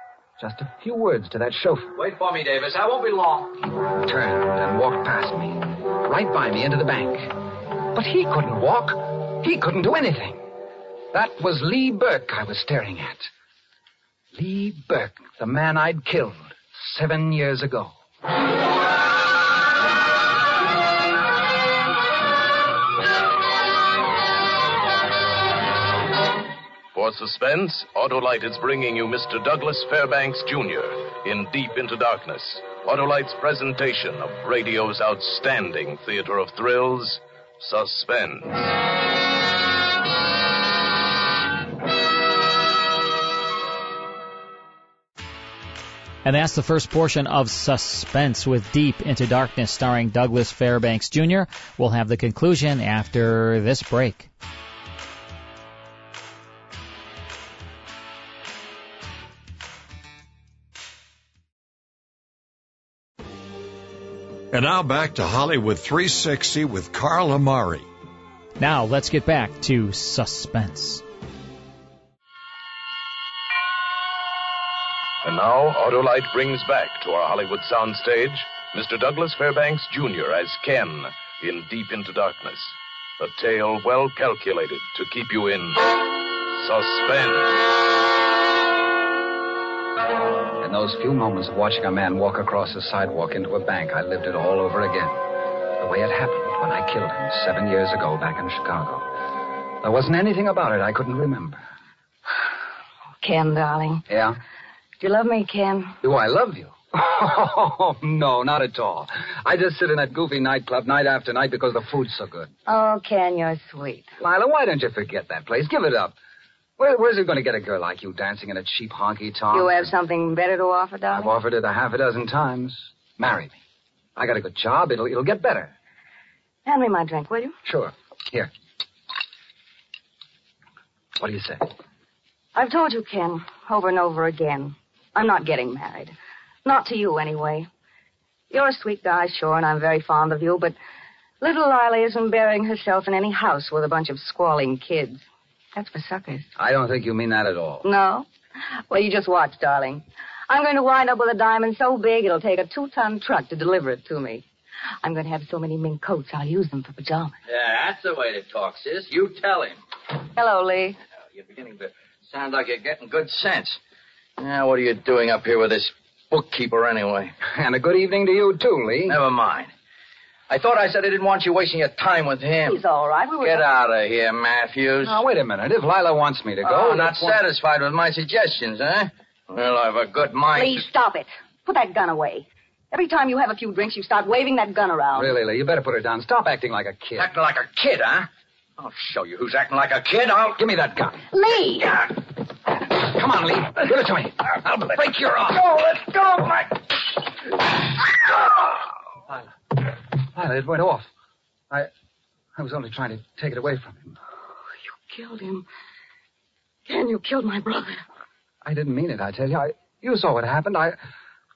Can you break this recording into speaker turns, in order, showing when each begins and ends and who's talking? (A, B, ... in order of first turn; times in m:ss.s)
0:00.4-0:02.0 A
0:02.2-0:03.4 B
0:03.6-0:07.4 A
0:07.9-0:10.5 A
0:11.1-0:13.3 A
0:14.3-0:17.9 A
0:26.9-0:38.7 C
0:46.2-0:54.3 D
1:04.5-1:07.9 E
1:08.6-1:11.0 D
1:15.2-1:25.9 C
1:26.5-1:27.6 C
1:30.6-1:35.2 A
1:35.8-1:39.1 A
1:39.8-1:41.6 A
1:43.2-1:44.0 F
1:44.1-1:44.4 A
1:45.0-1:46.0 F
1:46.0-1:52.5 A
1:52.7-1:54.1 F
1:54.2-1:56.2 A
1:56.8-1:59.9 A
1:59.5-2:01.3 F
2:01.1-2:03.6 A
2:04.2-2:05.7 A
2:06.6-2:07.6 F
2:07.6-2:08.5 A
2:11.2-2:11.7 A
2:12.5-2:16.1 F
2:16.6-2:17.7 F
2:18.5-2:20.7 F
2:21.4-2:26.5 F
2:26.6-2:27.8 A
2:27.8-2:28.3 F
2:28.9-2:34.4 F
2:35.0-2:37.3 F
2:37.5-2:39.8 B
2:40.4-2:41.0 F
2:41.4-2:43.8 B
2:44.4-2:47.3 B
2:47.5-2:49.2 A
2:49.1-2:49.7 B
2:50.5-2:52.8 B
2:52.6-2:53.6 F
2:53.4-2:55.2 B
2:55.0-2:57.4 A
2:56.7-3:00.8 B
3:00.5-3:05.3 F
3:05.1-3:07.3 A
3:07.2-3:08.2 B
3:08.8-3:10.5 B
3:10.5-3:11.2 A
3:11.3-3:12.0 F
3:12.9-3:15.7 A
3:15.7-3:16.4 B
3:20.3-3:21.1 A
3:22.6-3:24.2 A
3:25.1-3:25.6 F
3:26.9-3:28.0 F
3:28.6-3:31.0 A